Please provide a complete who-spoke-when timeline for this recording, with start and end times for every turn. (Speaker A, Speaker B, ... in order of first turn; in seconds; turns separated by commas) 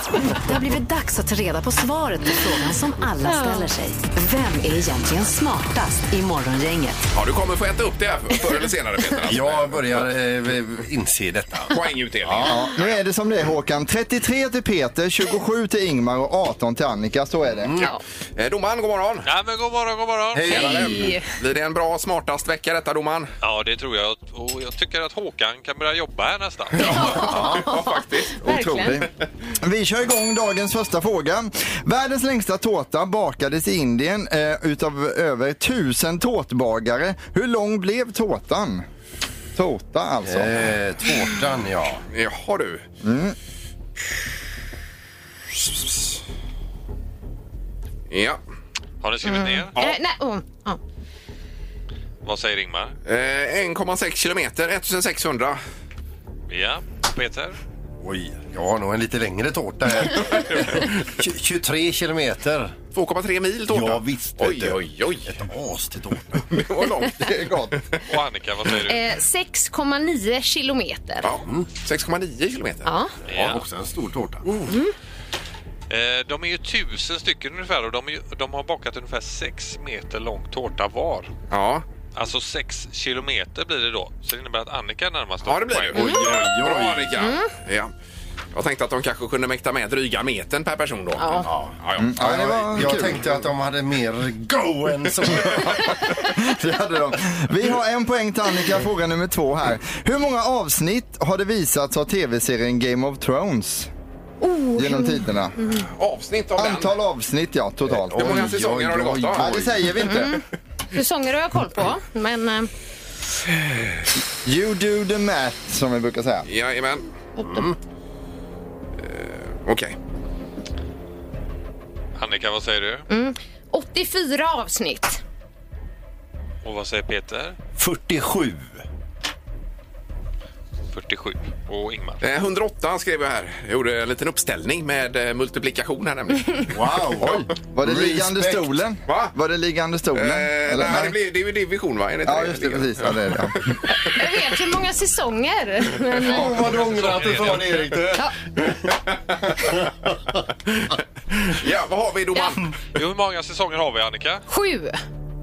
Speaker A: 0.4-7.0, Speaker B: 3.3-3.7, Speaker C: 7.1-10.1, Speaker D: 9.3-12.6, Speaker C: 11.7-13.0, Speaker E: 12.4-17.8, Speaker D: 17.6-17.9, Speaker C: 18.4-19.3, Speaker F: 19.2-20.9, Speaker D: 20.3-21.2, Speaker B: 20.5-21.3, Speaker C: 20.5-23.3, Speaker F: 23.4-27.3, Speaker C: 26.8-28.4, Speaker B: 26.8-29.0, Speaker D: 27.3-27.6, Speaker E: 28.4-38.9, Speaker E: 39.5-40.7, Speaker D: 40.2-42.0, Speaker C: 42.1-42.8, Speaker E: 43.0-43.4, Speaker C: 48.1-48.4, Speaker F: 49.0-49.7, Speaker B: 49.2-50.8, Speaker F: 52.2-52.9, Speaker C: 53.0-55.6, Speaker F: 56.5-57.6, Speaker D: 58.0-62.8, Speaker C: 62.9-65.3, Speaker D: 63.7-66.5, Speaker C: 66.5-68.0, Speaker F: 68.0-69.0, Speaker B: 68.9-71.3, Speaker C: 71.2-72.9, Speaker B: 72.8-73.1, Speaker F: 73.3-73.6, Speaker D: 73.3-74.5, Speaker F: 75.9-81.3, Speaker C: 81.5-81.8, Speaker F: 82.1-86.1, Speaker C: 85.4-87.9, Speaker D: 85.9-87.3, Speaker B: 86.0-86.2, Speaker B: 87.2-87.5, Speaker C: 88.5-92.9, Speaker B: 91.2-91.5, Speaker D: 91.4-95.9, Speaker E: 92.0-93.3, Speaker E: 96.3-103.9, Speaker B: 104.4-105.8, Speaker E: 104.8-105.6, Speaker C: 105.9-107.0, Speaker E: 106.5-108.6, Speaker D: 107.8-110.1, Speaker C: 108.2-109.5, Speaker E: 109.3-110.4, Speaker B: 110.0-112.7, Speaker E: 114.4-116.5, Speaker C: 116.5-117.1, Speaker B: 117.4-117.7, Speaker D: 117.4-117.8, Speaker C: 119.0-120.0, Speaker F: 122.2-123.0, Speaker B: 123.1-125.2, Speaker F: 126.6-127.5, Speaker D: 127.8-128.8, Speaker F: 130.9-132.2, Speaker C: 132.2-137.4, Speaker D: 136.7-138.7, Speaker E: 137.7-141.2, Speaker C: 139.1-139.3, Speaker C: 140.1-143.8, Speaker E: 142.2-143.7, Speaker B: 144.0-146.4, Speaker D: 146.2-148.7, Speaker F: 146.5-148.0, Speaker C: 151.3-152.7, Speaker F: 152.9-154.4, Speaker B: 154.5-155.0